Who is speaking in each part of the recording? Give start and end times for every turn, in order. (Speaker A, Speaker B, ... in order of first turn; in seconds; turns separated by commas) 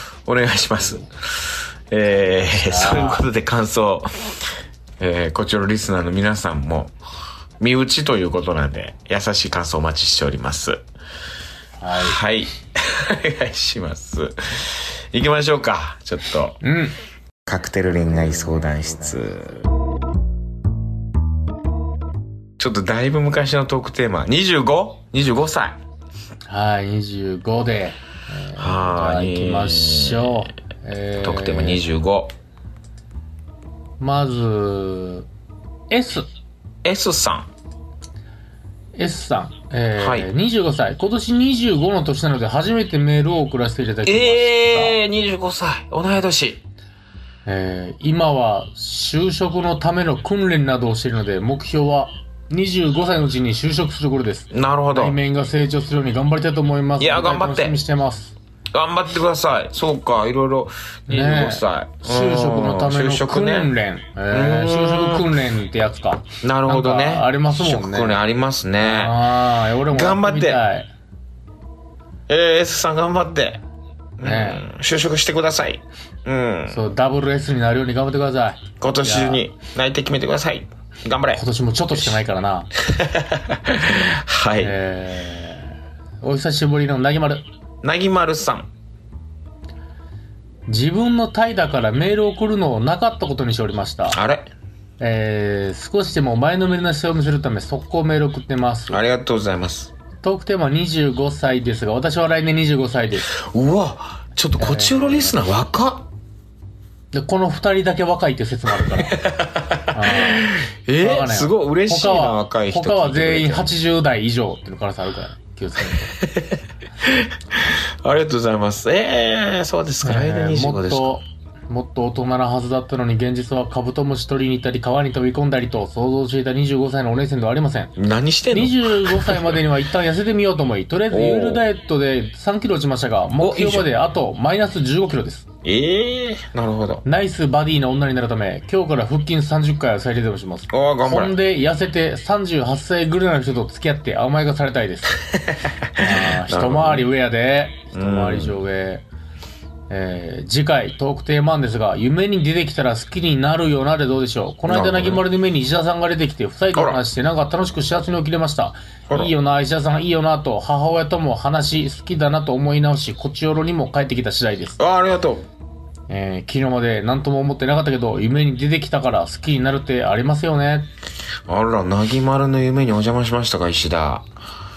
Speaker A: 0.2-4.2, Speaker B: 2.3-3.2, Speaker A: 5.0-6.9, Speaker A: 7.6-10.8, Speaker B: 11.8-12.2, Speaker A: 11.9-16.6, Speaker B: 16.6-16.9, Speaker A: 17.4-19.6, Speaker A: 22.6-25.8, Speaker B: 26.5-31.8, Speaker A: 28.6-30.5, Speaker A: 31.2-32.3, Speaker B: 34.0-35.3, Speaker B: 35.9-36.3, Speaker A: 36.8-37.5, Speaker B: 38.9-45.0, Speaker A: 40.0-40.3, Speaker A: 44.0-46.6, Speaker B: 47.5-58.3, Speaker A: 54.5-55.2, Speaker A: 57.0-57.8, Speaker A: 58.7-63.7, Speaker B: 61.1-68.2, Speaker A: 64.3-65.3, Speaker A: 66.4-69.2, Speaker B: 68.8-70.9, Speaker A: 69.9-70.6, Speaker A: 72.3-73.6, Speaker A: 74.2-76.8, Speaker B: 74.2-74.6, Speaker B: 76.7-79.4, Speaker A: 78.8-82.2, Speaker B: 81.3-82.7, Speaker A: 82.8-84.8, Speaker B: 84.6-87.4, Speaker A: 87.8-88.7, Speaker B: 90.7-94.2, Speaker A: 94.1-94.5, Speaker B: 95.0-99.0, Speaker A: 98.9-99.9, Speaker B: 100.2-103.3, Speaker A: 103.3-106.1, Speaker B: 104.6-105.3, Speaker B: 107.1-109.2, Speaker A: 108.8-113.7, Speaker B: 109.9-116.2, Speaker A: 116.2-121.2, Speaker B: 120.0-127.9, Speaker A: 128.0-129.6, Speaker B: 128.5-135.4, Speaker A: 131.1-131.6, Speaker A: 133.4-133.9, Speaker A: 135.6-137.0, Speaker B: 137.0-145.2, Speaker A: 140.7-141.3, Speaker A: 145.5-147.0, Speaker B: 145.9-149.0, Speaker A: 147.9-148.6, Speaker B: 149.9-164.8, Speaker A: 154.7-155.2, Speaker A: 156.7-157.0, Speaker A: 164.8-165.4, Speaker B: 166.1-170.9, Speaker A: 171.5-174.3